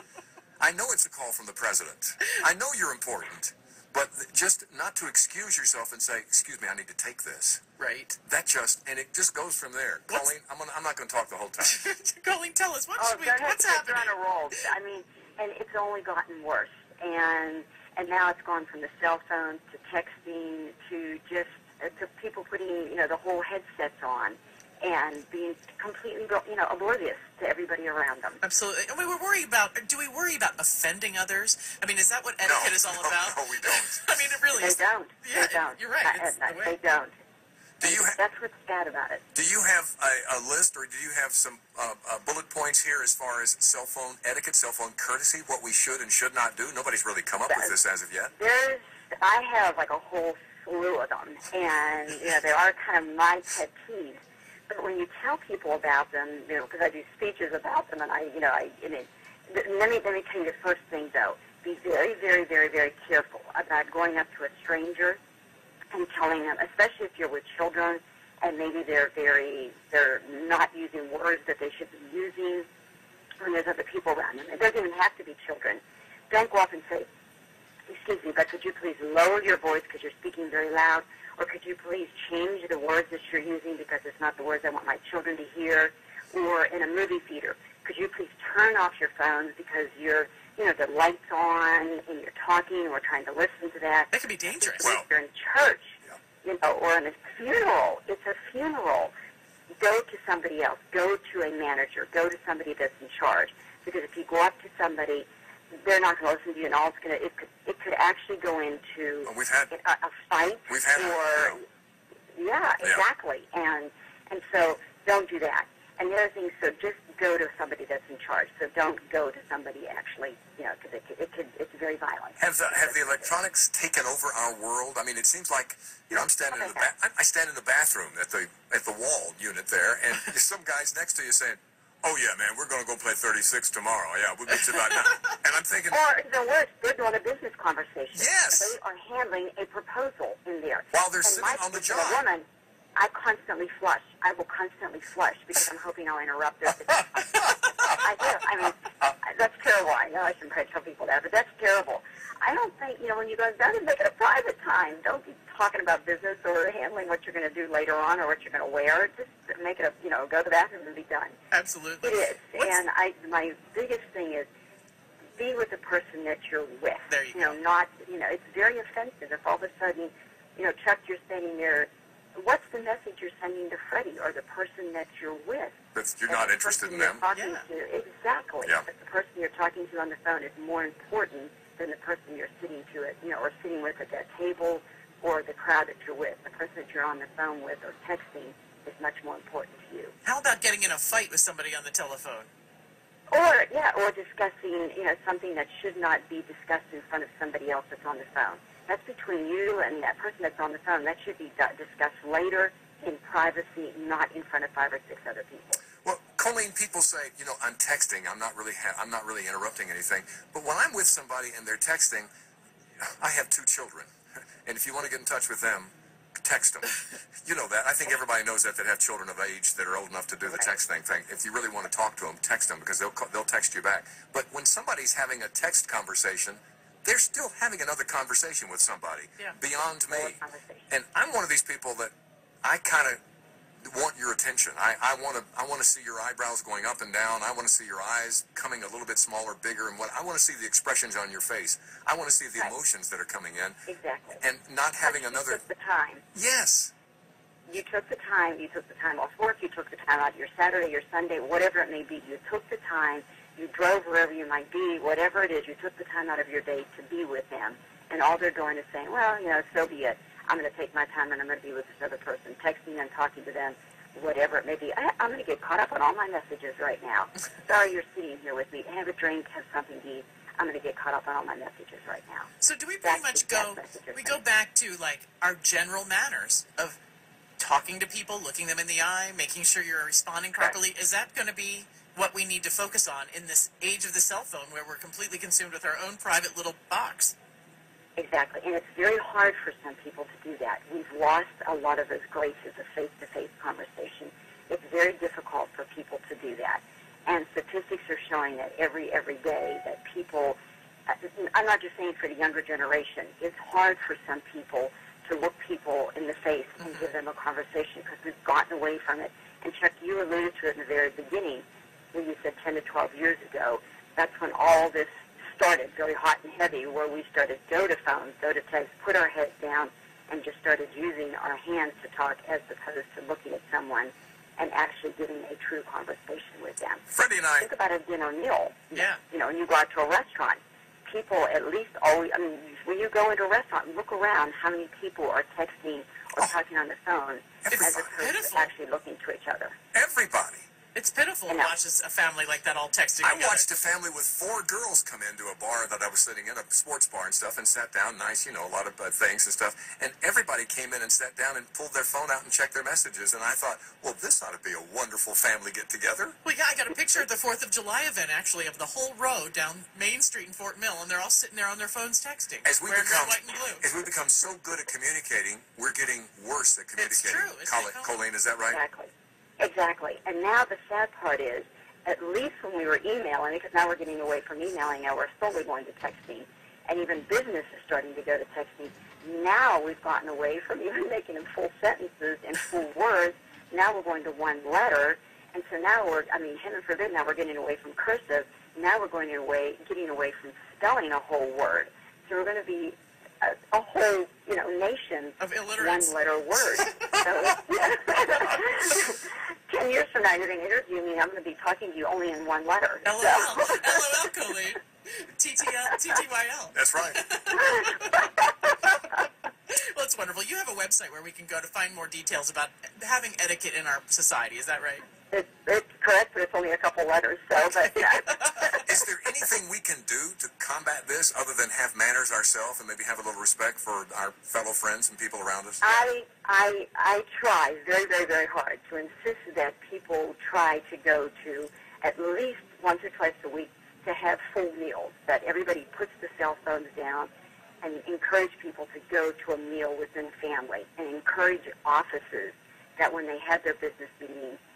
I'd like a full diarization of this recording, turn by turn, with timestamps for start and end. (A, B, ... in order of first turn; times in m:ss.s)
0:00.6-0:07.6 A
0:07.8-0:08.2 B
0:08.2-0:11.8 A
0:11.6-0:14.1 B
0:13.0-0:28.4 C
0:28.4-0:36.8 B
0:32.4-0:34.2 A
0:34.6-0:37.2 C
0:37.8-0:38.2 A
0:37.8-0:39.2 C
0:39.3-0:48.3 A
0:47.5-0:47.8 C
0:48.4-1:05.2 C
1:05.9-1:12.7 C
1:13.4-1:17.1 C
1:17.9-1:39.1 C
1:34.1-1:34.9 B
1:34.8-1:35.1 A
1:39.8-1:51.6 C
1:49.3-1:49.7 A
1:50.7-1:51.6 A
1:52.4-2:03.4 C
2:02.4-2:16.0 A
2:06.5-2:06.9 C
2:15.9-2:41.4 C
2:18.1-2:18.8 A
2:20.9-2:22.2 A
2:41.5-2:42.8 B
2:42.0-2:44.5 C
2:45.4-2:55.8 C
2:47.1-2:47.6 B
2:56.0-2:57.2 A
2:56.3-3:10.2 C
2:57.4-2:57.6 B
3:10.2-3:12.5 B
3:13.3-3:25.8 C
3:26.0-3:32.3 A
3:33.0-3:34.1 A
3:34.7-3:50.4 A
3:50.1-3:50.9 C
3:50.9-3:53.2 A
3:53.8-4:03.8 A
4:03.9-4:04.4 C
4:04.4-4:05.6 A
4:05.0-4:06.2 C
4:06.4-4:06.9 A
4:07.7-4:32.5 C
4:32.6-4:37.0 B
4:33.0-4:34.4 C
4:37.6-4:47.4 B
4:48.2-5:00.6 C
5:01.1-5:27.0 C
5:27.1-5:27.7 A
5:27.6-5:39.8 C
5:28.9-5:29.2 B
5:37.6-5:38.1 A
5:37.7-5:38.7 B
5:39.9-5:40.7 A
5:41.0-5:43.7 B
5:41.5-5:41.7 C
5:43.2-5:56.4 A
5:56.4-6:03.8 B
6:02.6-6:08.8 A
6:07.0-6:08.1 B
6:08.7-6:44.2 C
6:35.4-6:36.1 B
6:36.8-6:37.3 B
6:43.0-6:55.0 B
6:46.7-6:47.2 A
6:55.3-6:58.9 C
6:58.1-6:58.7 B
6:58.8-7:06.0 A
7:05.8-7:17.3 C
7:17.8-7:24.6 C